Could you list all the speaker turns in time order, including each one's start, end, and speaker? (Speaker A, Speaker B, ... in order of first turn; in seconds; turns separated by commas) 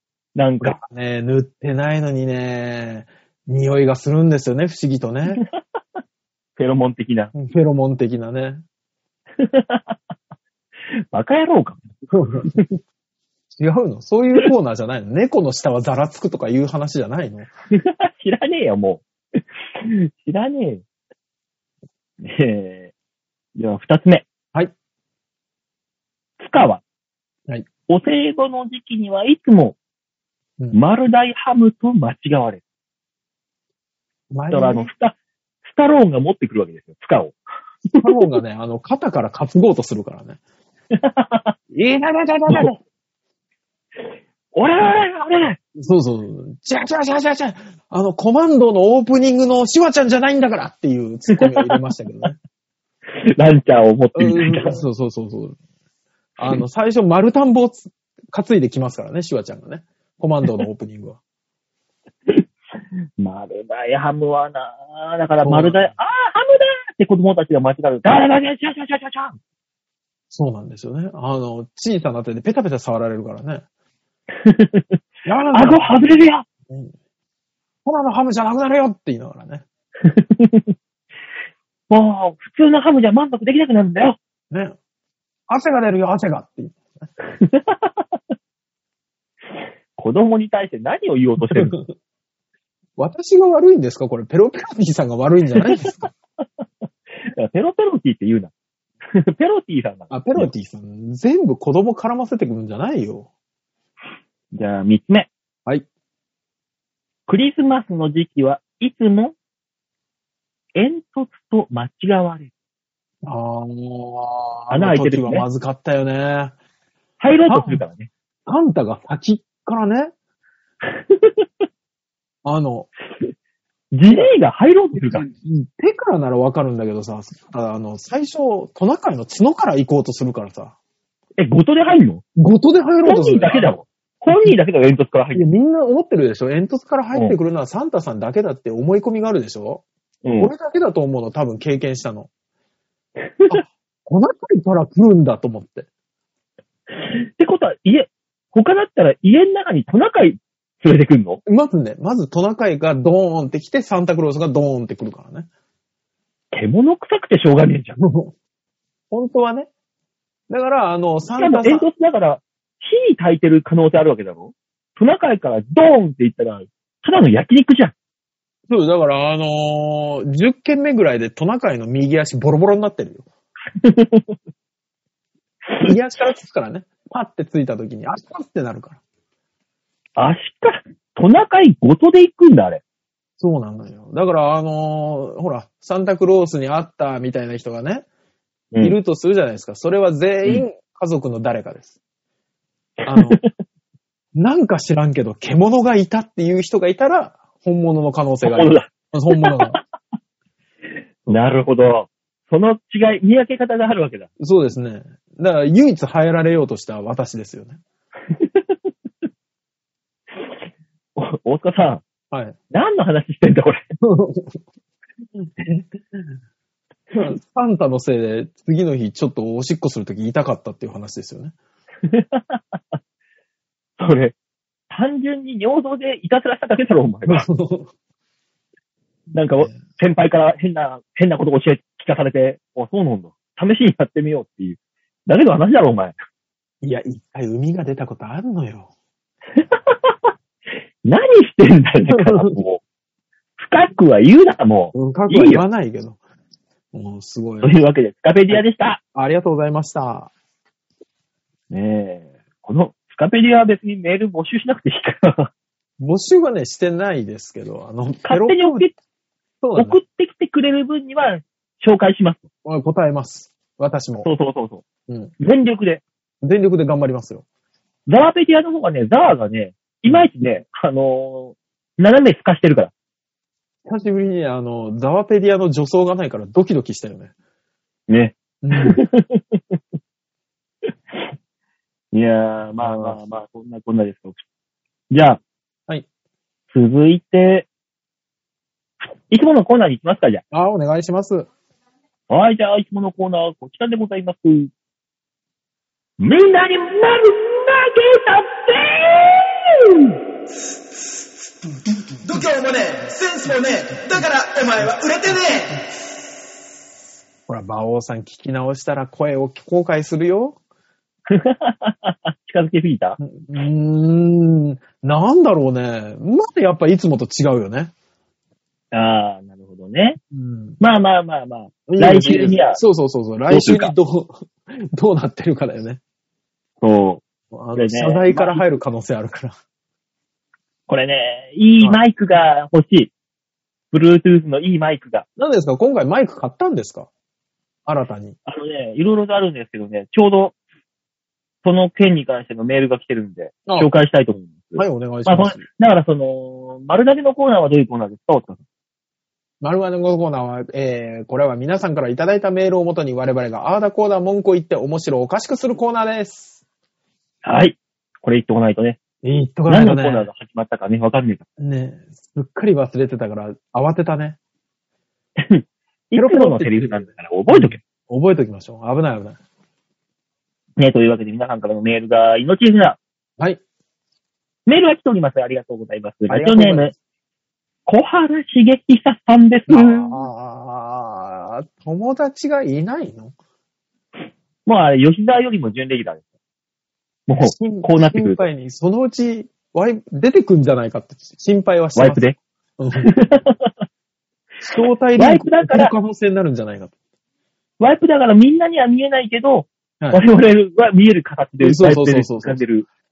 Speaker A: 0.3-0.8, Speaker B: 0.6-5.4, Speaker A: 6.6-7.3, Speaker B: 7.3-8.6, Speaker A: 9.4-10.0, Speaker A: 11.1-11.8, Speaker B: 12.1-12.5, Speaker A: 12.4-12.8, Speaker B: 13.5-17.5, Speaker A: 17.7-20.8, Speaker A: 22.2-22.9, Speaker A: 23.6-24.3, Speaker A: 26.4-26.8, Speaker A: 27.9-29.8, Speaker A: 30.7-32.6, Speaker B: 34.3-34.9, Speaker A: 34.5-37.4, Speaker A: 37.9-38.3, Speaker B: 38.0-40.4, Speaker A: 40.9-41.5, Speaker B: 41.7-42.8, Speaker A: 42.5-42.8, Speaker A: 44.5-45.6, Speaker B: 45.8-52.4, Speaker A: 51.4-51.7, Speaker A: 53.1-54.8, Speaker B: 54.1-55.6, Speaker B: 56.4-61.2, Speaker A: 63.2-69.4, Speaker B: 65.4-65.9, Speaker B: 70.3-73.7, Speaker A: 74.4-75.0, Speaker B: 75.3-76.0, Speaker A: 75.5-76.5, Speaker B: 76.7-76.9, Speaker B: 77.8-79.7, Speaker A: 80.0-80.7, Speaker A: 81.9-84.2, Speaker B: 85.5-87.1, Speaker A: 87.3-88.1, Speaker A: 90.0-91.8, Speaker B: 91.5-91.8, Speaker B: 93.0-96.1, Speaker A: 97.2-98.5, Speaker A: 99.1-100.5, Speaker B: 100.1-103.3, Speaker A: 104.5-105.3, Speaker A: 107.3-109.3, Speaker A: 110.8-112.5, Speaker B: 113.2-116.5, Speaker A: 114.7-115.5, Speaker A: 117.2-118.1, Speaker B: 117.5-117.8, Speaker B: 118.5-120.1, Speaker A: 120.9-121.7, Speaker B: 122.5-122.9, Speaker A: 123.9-125.3, Speaker B: 125.1-130.8, Speaker A: 131.4-132.2, Speaker B: 132.4-133.8, Speaker A: 133.1-135.5, Speaker B: 134.3-134.6, Speaker B: 135.3-139.8, Speaker A: 140.2-140.5, Speaker B: 140.4-142.3, Speaker A: 143.2-143.6, Speaker B: 143.5-145.9, Speaker A: 147.0-151.4, Speaker B: 151.5-155.5, Speaker A: 156.5-158.0, Speaker B: 158.0-158.3, Speaker B: 159.1-159.7, Speaker B: 160.5-161.9, Speaker A: 161.4-167.9, Speaker B: 168.7-173.3, Speaker A: 173.8-174.4, Speaker B: 175.8-179.0, Speaker A: 180.2-182.8, Speaker B: 183.4-188.1, Speaker B: 188.8-192.0, Speaker A: 193.1-193.4, Speaker B: 193.1-193.4, Speaker B: 194.3-199.8, Speaker A: 198.4-199.8, Speaker A: 201.3-204.3, Speaker B: 204.4-207.8, Speaker A: 208.3-208.8, Speaker A: 211.2-212.0, Speaker B: 212.3-212.6, Speaker A: 212.7-213.8, Speaker B: 214.0-214.6, Speaker B: 215.4-216.3, Speaker B: 217.1-221.5, Speaker A: 222.1-223.0, Speaker A: 224.0-224.3, Speaker A: 224.9-227.5, Speaker B: 227.3-227.9, Speaker A: 229.3-236.2, Speaker B: 236.8-238.9, Speaker A: 239.6-240.1, Speaker A: 241.0-242.8, Speaker B: 242.1-242.6, Speaker A: 243.6-245.7, Speaker B: 244.9-246.2, Speaker B: 246.9-247.8, Speaker A: 247.6-249.0, Speaker B: 249.2-250.3, Speaker A: 251.7-255.5, Speaker B: 256.0-258.9, Speaker A: 258.2-258.9, Speaker B: 259.6-260.0, Speaker A: 259.8-262.4, Speaker B: 262.6-264.3, Speaker A: 264.2-264.8, Speaker A: 265.4-266.0, Speaker B: 266.4-267.4, Speaker A: 268.1-272.9, Speaker B: 273.9-277.3, Speaker A: 278.1-279.8, Speaker B: 278.6-279.0, Speaker A: 280.9-281.3, Speaker A: 282.1-284.4, Speaker B: 282.8-283.2, Speaker A: 285.1-285.4, Speaker A: 286.7-287.7, Speaker A: 289.0-290.4, Speaker B: 290.5-291.5, Speaker A: 292.3-294.7, Speaker A: 296.2-300.1, Speaker C: 301.9-305.8, Speaker B: 307.5-310.6, Speaker A: 311.3-313.2, Speaker B: 313.2-317.9, Speaker A: 318.9-320.2, Speaker B: 320.3-320.8, Speaker A: 320.8-322.8, Speaker B: 321.9-326.0, Speaker A: 323.5-323.9, Speaker A: 326.8-327.2, Speaker B: 327.5-329.6, Speaker A: 327.8-328.6, Speaker A: 330.9-333.1, Speaker A: 333.9-335.2, Speaker B: 335.4-337.1, Speaker B: 337.9-338.4, Speaker A: 338.5-340.5, Speaker A: 341.6-348.6, Speaker B: 344.8-345.6, Speaker B: 349.6-356.6, Speaker A: 357.4-359.0, Speaker B: 359.2-360.3, Speaker A: 359.7-361.4, Speaker B: 361.6-364.4, Speaker A: 365.4-367.8, Speaker B: 366.1-369.4, Speaker A: 370.8-373.0, Speaker A: 374.7-376.9, Speaker B: 376.3-376.9, Speaker A: 377.9-380.3, Speaker B: 379.7-383.3, Speaker A: 384.7-386.2, Speaker A: 387.3-388.4, Speaker B: 387.4-393.1, Speaker A: 391.9-392.4, Speaker A: 393.0-393.7, Speaker B: 394.7-396.9, Speaker A: 394.7-395.9, Speaker A: 397.8-402.9, Speaker B: 401.6-402.6